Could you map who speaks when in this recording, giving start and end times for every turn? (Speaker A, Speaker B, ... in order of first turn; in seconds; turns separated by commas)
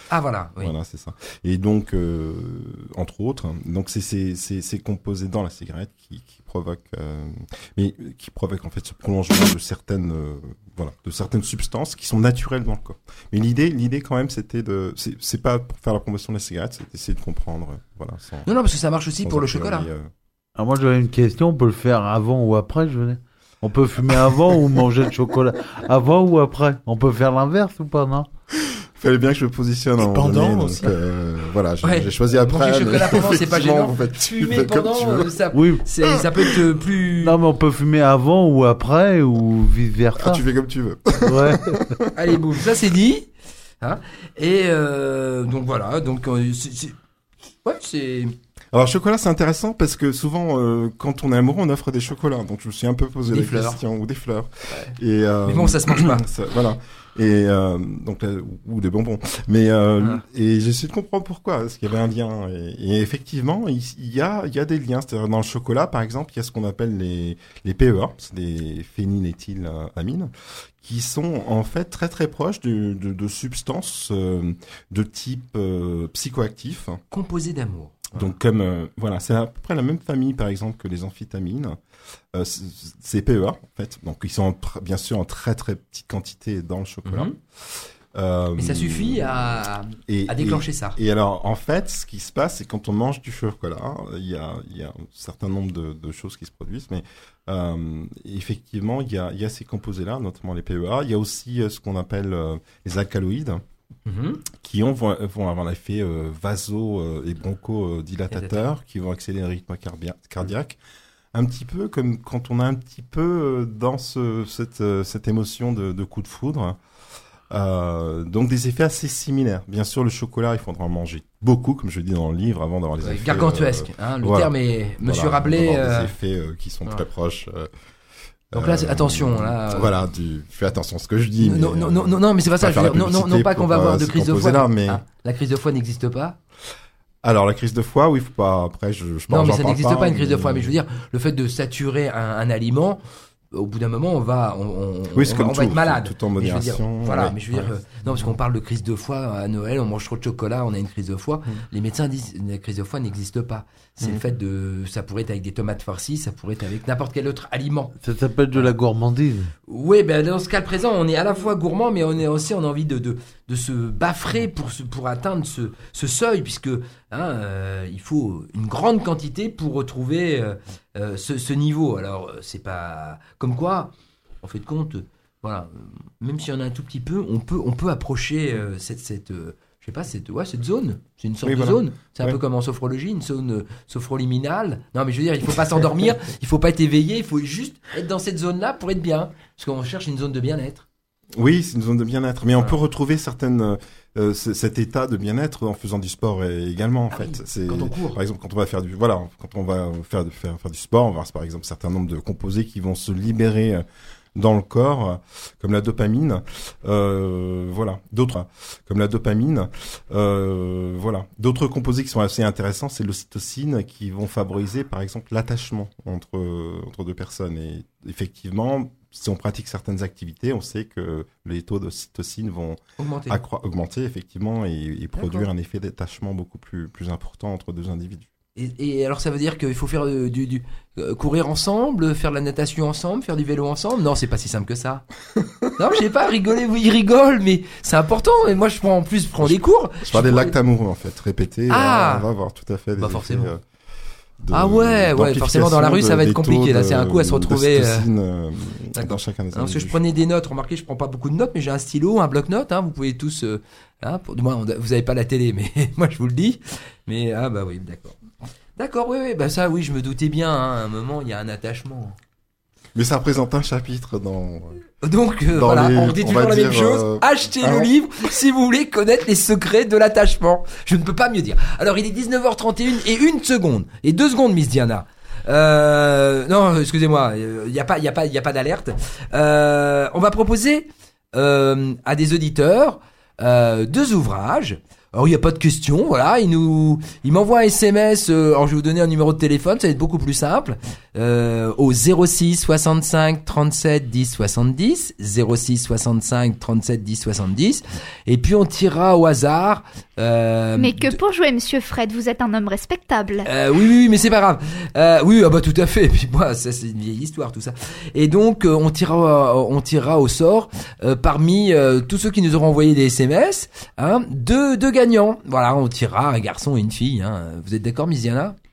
Speaker A: 0.1-0.7, Speaker B: 0.6-18.5, Speaker A: 18.4-19.9, Speaker B: 19.2-20.1, Speaker C: 20.5-28.3, Speaker B: 28.6-35.3, Speaker C: 30.0-31.0, Speaker A: 31.8-37.4, Speaker C: 35.5-35.8, Speaker C: 37.2-40.4, Speaker B: 40.2-42.4, Speaker C: 41.2-42.0, Speaker A: 42.1-43.3, Speaker A: 43.8-47.0, Speaker A: 47.6-48.3, Speaker B: 48.7-77.0, Speaker A: 53.3-53.8, Speaker A: 55.4-56.2, Speaker A: 77.1-78.3, Speaker B: 78.1-81.8, Speaker B: 82.3-89.5, Speaker A: 87.0-87.3, Speaker A: 88.5-91.0, Speaker B: 90.1-103.6, Speaker A: 104.0-104.4, Speaker B: 104.5-110.8, Speaker A: 108.3-108.7, Speaker B: 111.3-116.8, Speaker B: 117.5-127.7, Speaker A: 123.0-126.1, Speaker B: 128.5-135.0, Speaker A: 128.5-130.0, Speaker A: 131.4-136.4, Speaker B: 137.2-140.8, Speaker A: 139.3-157.9, Speaker B: 145.1-148.3, Speaker C: 158.0-159.5, Speaker A: 159.7-173.9, Speaker A: 174.4-190.8, Speaker B: 181.4-182.4, Speaker B: 191.3-228.3, Speaker A: 197.1-198.2, Speaker A: 223.0-223.4, Speaker A: 225.1-225.5, Speaker A: 228.5-235.0, Speaker A: 235.8-240.5, Speaker B: 239.4-243.6, Speaker A: 241.7-242.3, Speaker A: 242.9-243.5, Speaker B: 244.4-250.0, Speaker A: 244.5-248.1, Speaker A: 248.9-258.2, Speaker A: 258.8-262.2, Speaker B: 262.9-264.8, Speaker A: 265.0-301.1, Speaker B: 265.5-267.9, Speaker D: 300.8-303.5, Speaker A: 303.4-318.6